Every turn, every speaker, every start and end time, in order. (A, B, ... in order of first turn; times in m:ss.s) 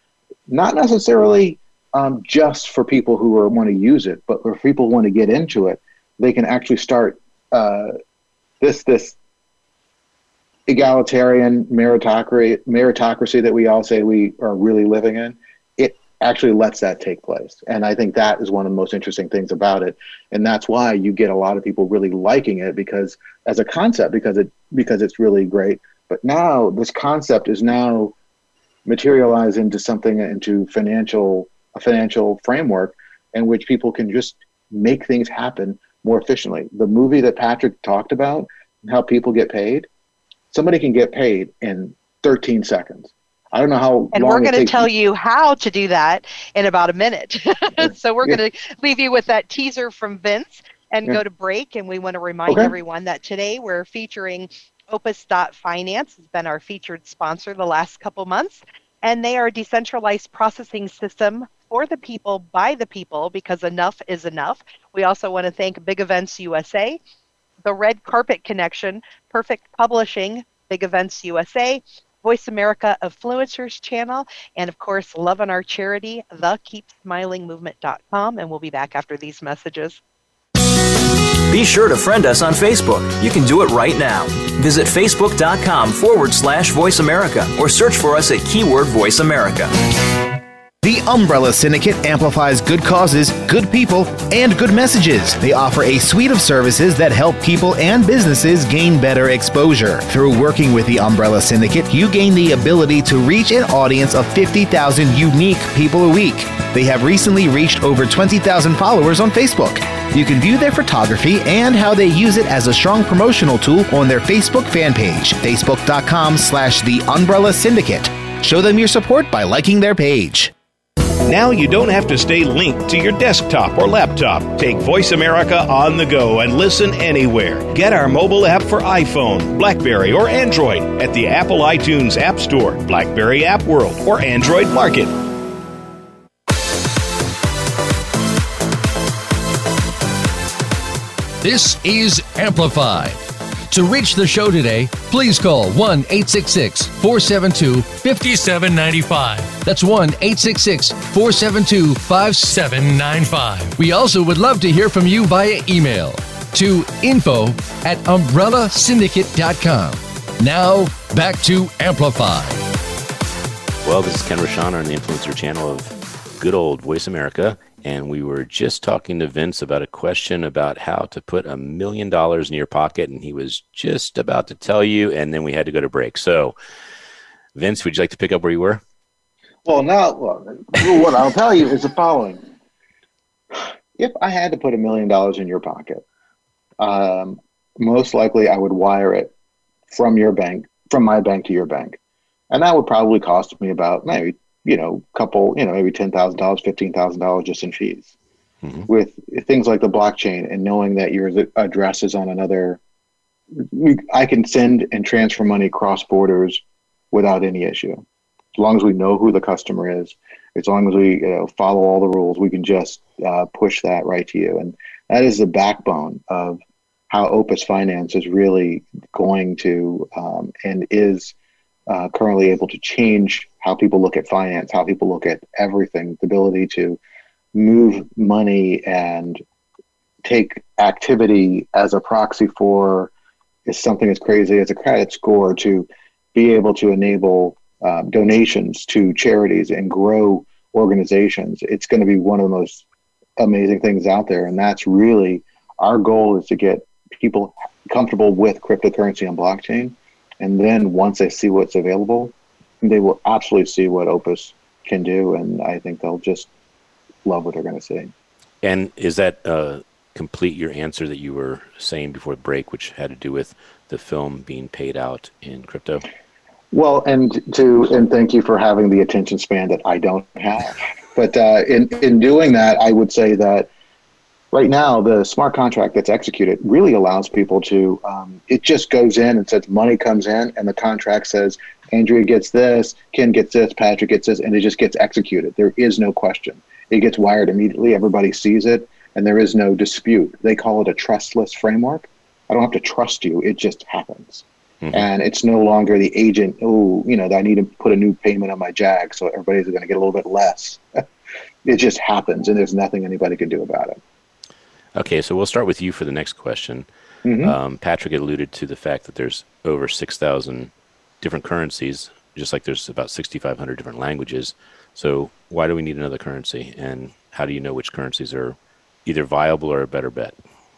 0:00.5-0:07.9 A
0:08.6-0:09.2 A
0:10.7-0:28.2 A
0:28.9-0:39.9 A
0:40.5-0:44.9 A
0:44.1-1:07.0 B
0:52.5-0:52.8 A
1:07.6-1:20.0 B
1:21.5-1:29.7 C
1:30.8-2:00.5 D
2:01.2-2:15.1 E
2:21.4-2:42.7 F
2:43.8-2:56.6 G
2:57.6-2:58.8 G
2:59.7-3:02.4 A
3:04.0-3:06.0 A
3:06.8-3:09.3 A
3:09.9-3:12.0 A
3:12.5-3:18.1 A
3:18.6-3:18.9 G
3:18.9-3:22.8 A
3:23.6-3:28.0 A
3:28.6-3:41.3 A
3:41.9-3:47.0 A
3:47.5-3:49.4 A
3:50.2-3:53.1 A
3:53.7-4:02.8 A
4:03.4-4:16.5 A
4:17.2-4:18.1 A
4:18.6-4:26.0 G
4:26.7-4:33.7 A
4:34.5-5:01.0 A
4:54.8-4:55.1 G
5:01.6-5:04.0 A
5:05.0-5:06.9 G
5:07.2-5:07.6 A
5:07.4-5:20.4 G